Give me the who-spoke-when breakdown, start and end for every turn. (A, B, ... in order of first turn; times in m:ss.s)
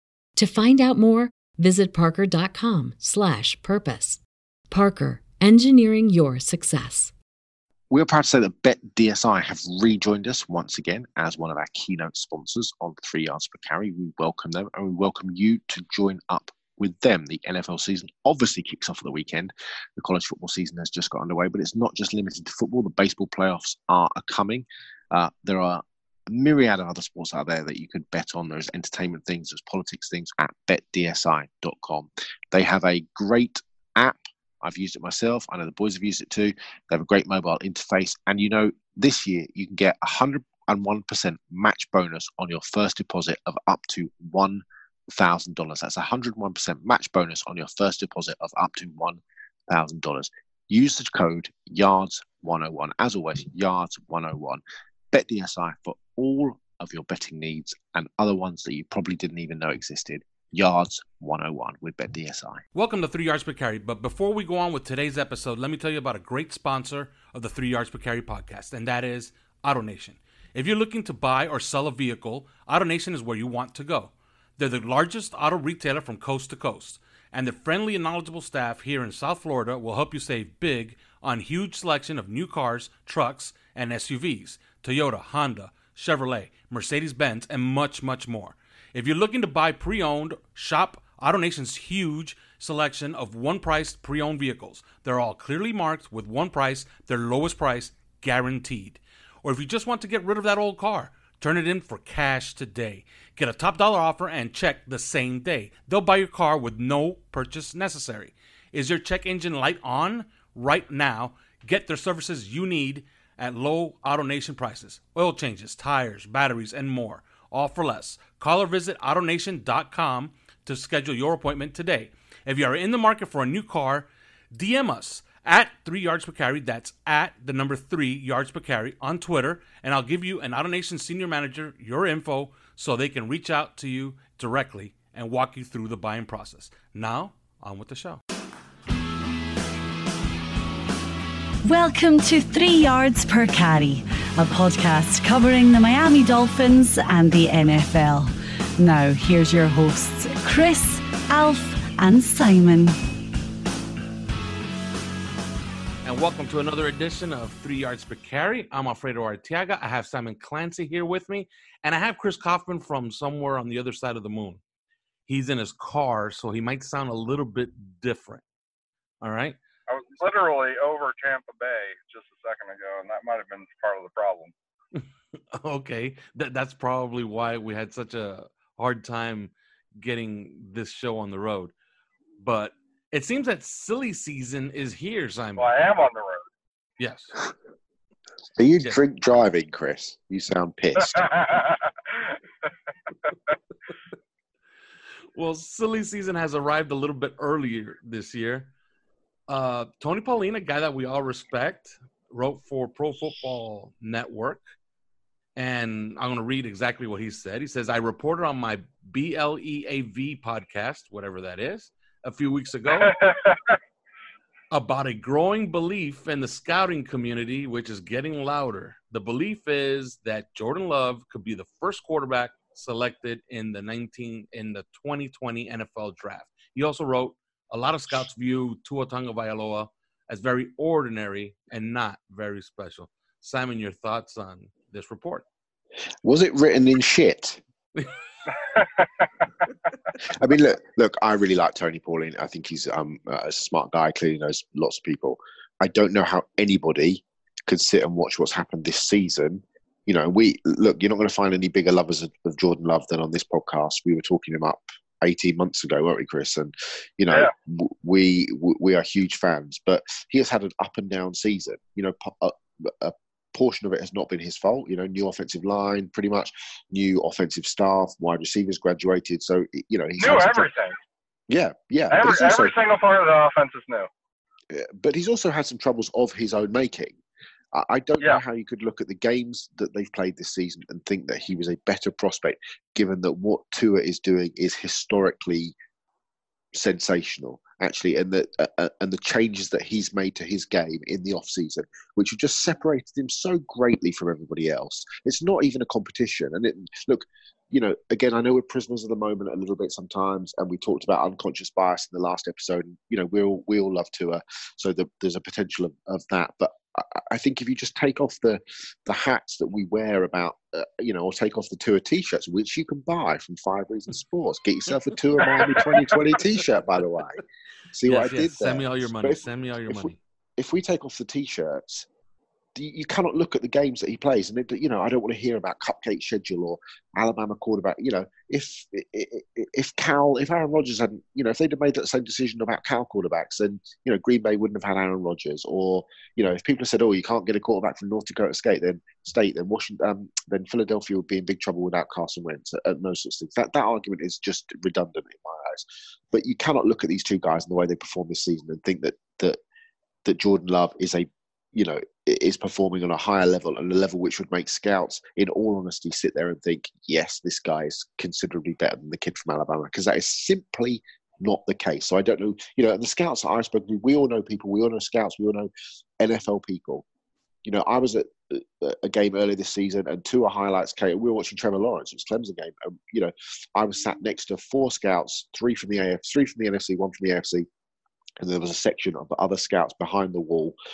0:00.4-0:07.1 A
0:07.9-1:02.6 B
1:02.7-2:18.2 C
2:21.6-2:33.0 D
2:36.0-2:44.6 C
2:45.3-2:48.4 C
2:49.2-2:49.6 C
2:49.9-2:54.5 E
2:54.9-3:01.7 C
3:02.4-3:05.7 C
3:05.6-3:06.4 E
3:07.0-3:07.4 C
3:08.6-3:11.2 B
3:11.0-3:12.4 E
3:15.3-3:18.7 C
3:19.5-3:24.6 C
3:25.6-3:33.2 C
3:32.9-3:33.8 E
3:34.7-3:55.4 C
3:56.2-3:57.6 B
3:58.5-3:59.4 E
4:00.2-4:30.7 B
4:30.2-4:31.0 E
4:31.5-4:32.7 B
4:32.1-4:34.1 E
4:34.7-4:37.2 B
4:37.7-4:45.7 B
4:46.7-5:17.4 B
5:15.4-5:15.8 E
5:17.9-5:22.1 B
5:18.0-5:20.2 C
5:22.7-5:49.6 B
5:50.2-6:07.0 B
6:07.6-6:17.7 B
6:18.4-6:20.7 B